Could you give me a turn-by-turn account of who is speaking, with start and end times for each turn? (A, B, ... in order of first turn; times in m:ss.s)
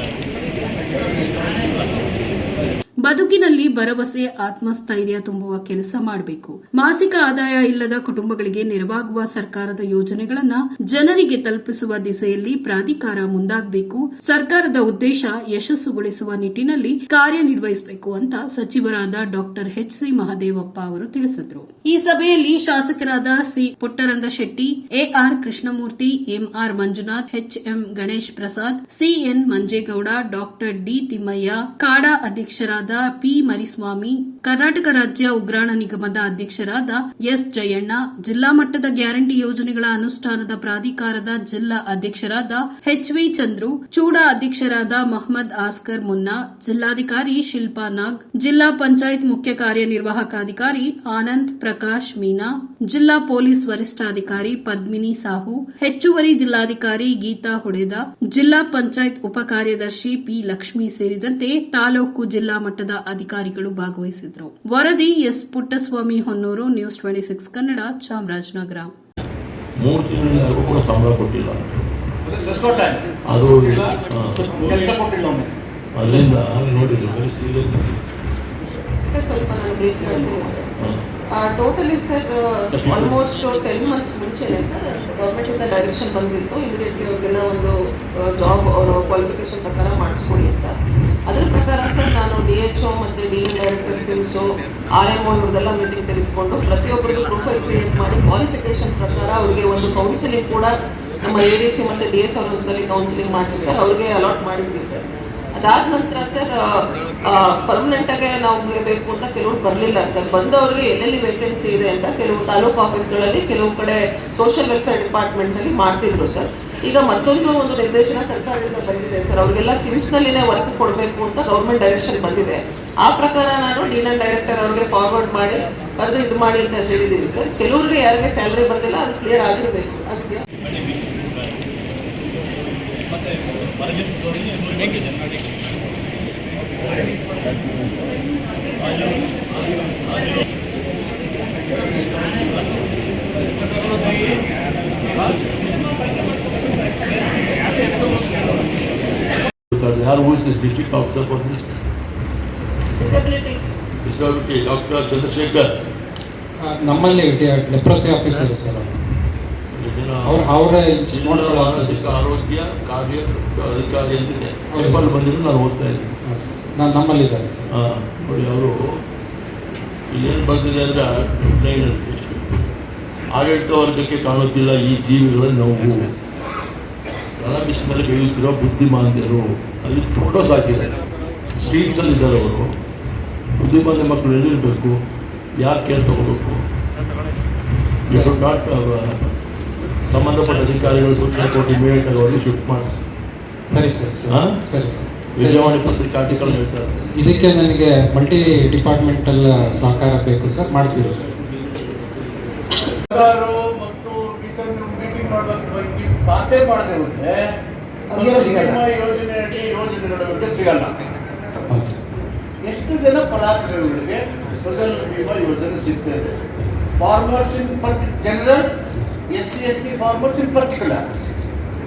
0:03.0-1:08.9 A
1:09.8-1:11.8 B
1:12.3-1:13.2 C
1:13.3-1:14.6 B
1:14.4-1:15.6 C
1:16.0-1:18.0 B
1:19.1-1:20.7 D
1:21.4-1:30.8 D
1:22.7-1:23.2 B
1:31.3-1:46.7 D
1:47.2-2:10.4 D
2:23.6-2:24.4 C
2:27.6-2:28.3 D
2:28.0-2:28.5 C
2:29.7-2:31.7 B
2:33.0-2:33.6 D
2:34.0-2:35.7 B
2:36.6-2:39.0 E
2:39.8-2:40.5 B
2:40.2-2:42.2 E
2:41.1-2:46.1 B
2:44.7-2:45.1 E
2:46.3-2:47.7 E
2:47.7-2:48.8 B
2:50.1-2:52.4 B
2:53.3-2:56.1 B
2:57.4-3:00.9 B
3:01.6-3:02.7 B
3:03.6-3:05.0 B
3:05.6-3:06.6 B
3:08.1-3:09.2 B
3:08.1-3:08.4 E
3:10.1-3:13.0 B
3:13.7-3:16.6 E
3:14.3-3:14.6 B
3:15.4-3:16.9 B
3:17.1-3:21.3 E
3:23.0-3:27.4 C
3:28.2-3:28.8 D
3:28.2-3:30.9 C
3:31.7-3:32.0 E
3:32.6-3:36.3 C
3:37.0-3:38.7 C
3:39.3-3:41.0 C